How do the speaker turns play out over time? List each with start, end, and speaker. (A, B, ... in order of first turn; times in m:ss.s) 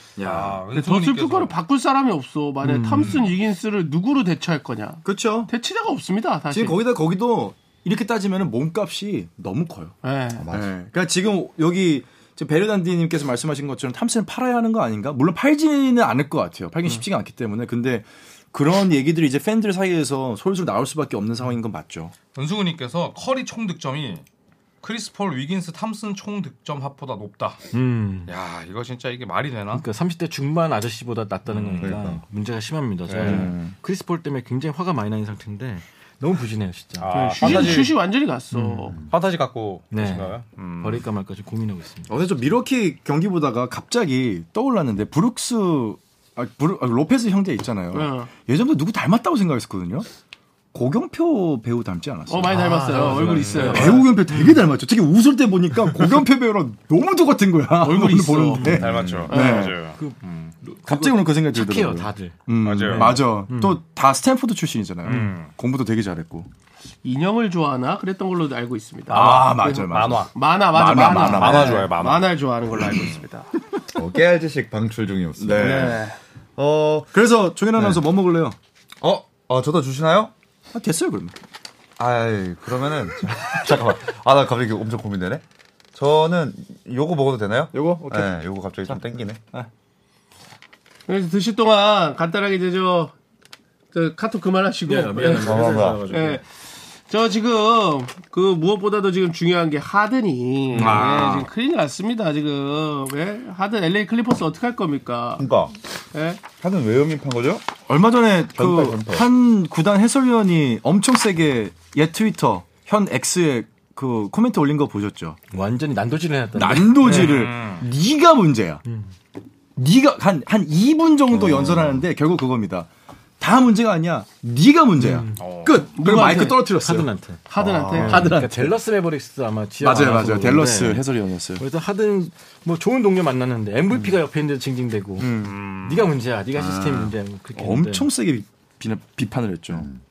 0:00.2-0:00.6 A
0:00.2-0:01.6 B
0:00.7-0:06.8 C
0:02.6-0:03.2 D
0:05.0-0:05.5 A
0:06.5-0:10.0 A
0:10.0-0:10.5 C
0:10.3-0:10.7 E
0:10.5-0:22.1 A
0:22.3-0:24.2 B
0:24.8-0:27.6 B
0:27.7-0:28.3 D
0:28.3-0:29.8 B
0:29.7-0:37.8 D
0:31.5-0:32.0 B
0:31.8-0:32.2 E
0:33.1-0:33.5 B
0:33.2-0:33.7 A
0:37.0-0:37.9 B
0:37.1-0:39.0 C
0:38.5-0:39.0 D
0:39.1-0:41.0 B
0:39.9-0:42.1 D
0:42.1-0:50.1 A
0:47.9-0:48.3 C
0:50.7-0:59.8 A
0:52.3-0:54.1 C
0:52.4-0:54.6 D
0:53.4-0:53.8 B
0:57.8-0:58.8 C
0:58.5-1:03.8 D
0:58.6-0:59.3 E
0:58.7-1:00.5 B
0:59.3-0:59.7 C
1:00.8-1:06.5 A
1:02.6-1:03.2 B
1:05.0-1:05.5 B
1:05.0-1:05.4 D
1:07.0-1:13.5 C
1:09.1-1:11.9 A
1:09.7-1:10.3 B
1:11.0-1:12.4 B
1:13.9-1:16.0 E
1:15.4-1:16.0 A
1:15.6-1:16.2 C
1:16.6-1:17.1 E
1:17.1-1:18.6 A
1:17.8-1:18.0 E
1:19.0-1:20.3 E
1:20.7-1:21.3 A
1:22.0-1:29.4 E
1:27.7-1:28.3 A
1:31.1-1:33.1 C
1:33.9-1:36.4 C
1:34.8-1:36.4 D
1:35.4-1:36.1 E
1:37.1-1:45.5 C
1:40.7-1:41.5 A
1:45.4-1:45.7 E
1:46.1-1:46.4 C
1:46.5-1:47.6 E
1:47.9-1:55.4 A
1:48.5-1:49.3 E
1:55.5-1:57.4 D
1:56.5-1:58.8 A
1:57.1-1:57.9 B
1:58.8-1:59.1 D
1:59.8-2:08.8 A
2:01.3-2:02.0 E
2:05.0-2:05.4 D
2:05.4-2:05.8 B
2:05.9-2:06.6 C
2:06.6-2:11.0 D
2:07.5-2:08.5 C
2:07.6-2:08.1 E
2:09.8-2:11.6 A
2:11.6-2:18.1 D
2:13.9-2:14.2 E
2:15.2-2:15.6 A
2:15.4-2:16.1 B
2:16.9-2:19.9 A
2:19.7-2:20.0 E